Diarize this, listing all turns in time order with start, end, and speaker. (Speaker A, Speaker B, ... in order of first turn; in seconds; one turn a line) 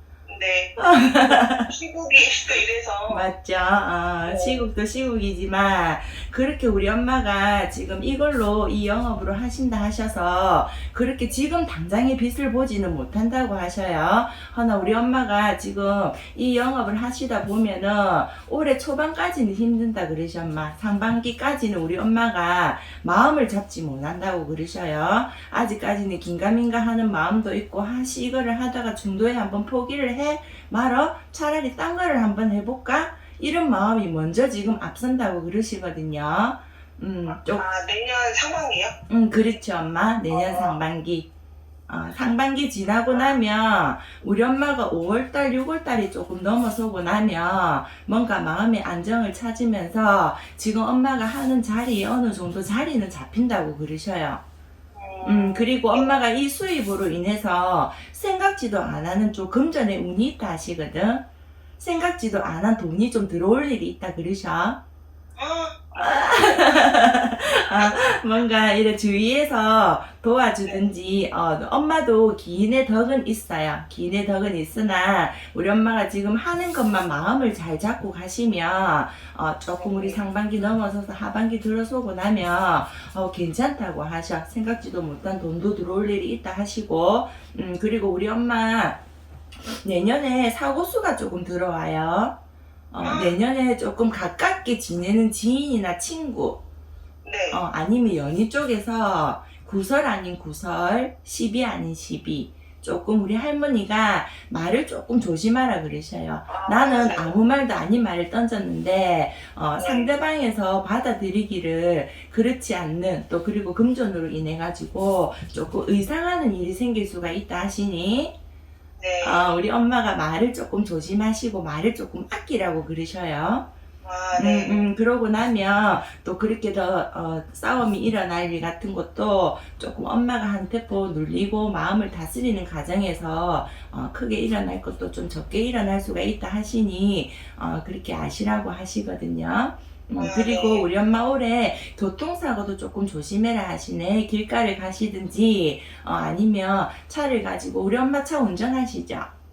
Speaker A: 0.3-3.3
Speaker B: 0.8-1.7
Speaker B: 3.1-37.6
Speaker A: 4.2-4.7
Speaker A: 37.2-38.9
Speaker B: 39.1-41.3
Speaker A: 40.3-40.8
Speaker B: 41.9-54.4
Speaker A: 43.1-43.4
Speaker A: 54.9-56.2
Speaker B: 55.2-61.2
Speaker B: 61.8-64.8
Speaker A: 65.4-68.2
Speaker B: 66.0-89.0
Speaker A: 70.6-70.9
Speaker A: 79.8-80.2
Speaker B: 89.8-92.3
Speaker B: 92.9-96.6
Speaker A: 93.0-93.4
Speaker A: 97.2-97.6
Speaker B: 97.5-118.3
Speaker A: 106.5-107.4
Speaker A: 109.8-110.2
Speaker A: 119.0-119.5
Speaker B: 119.2-123.7
Speaker A: 124.0-124.9
Speaker B: 124.3-149.3
Speaker A: 140.2-140.9